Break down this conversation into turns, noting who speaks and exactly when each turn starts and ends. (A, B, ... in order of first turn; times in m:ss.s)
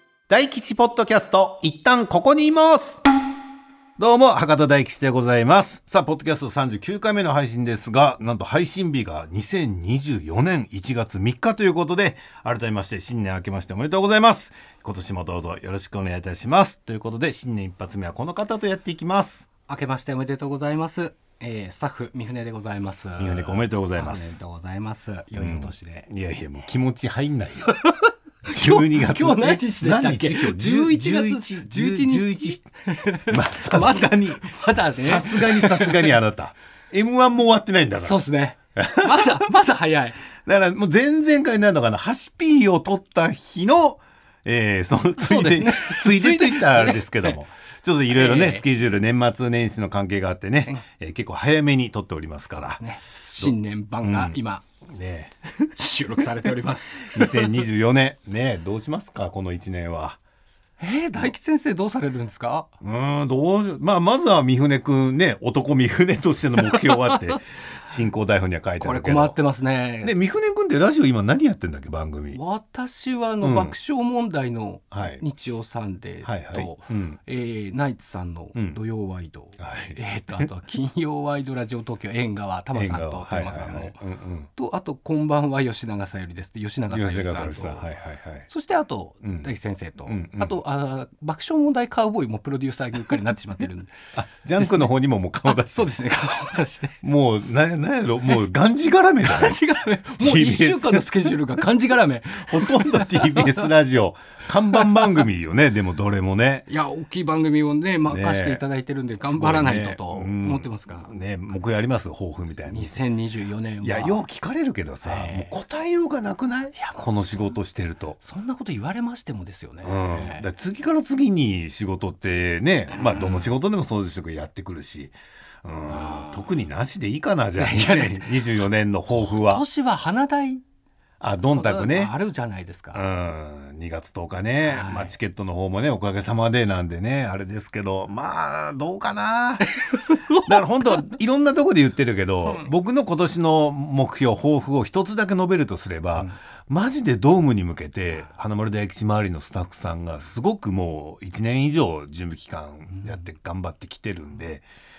0:00.3-0:03.0 A
0:04.0-0:19.5 A
0:19.7-0:26.1 B
0:23.2-0:24.4 A
0:25.4-0:27.8 A
0:27.7-0:36.2 B
0:28.5-0:32.6 A
0:33.3-0:38.2 A
0:38.0-0:40.2 B
0:38.8-0:39.4 A
0:40.4-0:52.8 A
0:45.2-0:47.4 B
0:48.1-0:48.6 B
0:52.5-0:54.6 B
0:53.4-0:54.4 A
0:54.9-0:55.3 A
0:55.5-0:57.6 B
0:57.1-1:00.2 A
1:00.8-1:02.7 B
1:02.8-1:09.4 A
1:06.8-1:07.2 B
1:08.8-1:10.1 B
1:10.0-1:12.4 A
1:12.3-1:24.0 B
1:13.4-1:13.8 A
1:14.9-1:15.2 A
1:16.2-1:17.2 A
1:19.6-1:20.5 A
1:22.7-1:24.5 A
1:24.6-1:27.9 B
1:26.9-1:28.5 A
1:28.5-1:33.9 B
1:30.1-1:30.6 A
1:34.2-1:35.9 A
1:34.6-1:34.9 B
1:35.5-1:37.0 B
1:37.0-1:39.6 A
1:39.2-1:43.7 B
1:40.2-1:41.1 A
1:42.4-1:46.7 A
1:44.7-1:45.1 B
1:46.7-1:51.1 B
1:48.1-1:48.6 A
1:49.2-1:53.0 A
1:52.7-1:54.2 B
1:53.8-1:58.2 A
1:55.0-1:55.5 B
1:56.8-1:57.4 B
1:58.2-2:00.5 B
1:59.8-2:09.6 A
2:02.9-2:03.5 B
2:05.9-2:06.5 B
2:07.6-2:08.5 B
2:09.1-2:10.6 B
2:11.2-2:12.1 A
2:11.5-2:13.0 B
2:12.9-2:34.6 A
2:14.6-2:15.1 B
2:20.0-2:20.4 B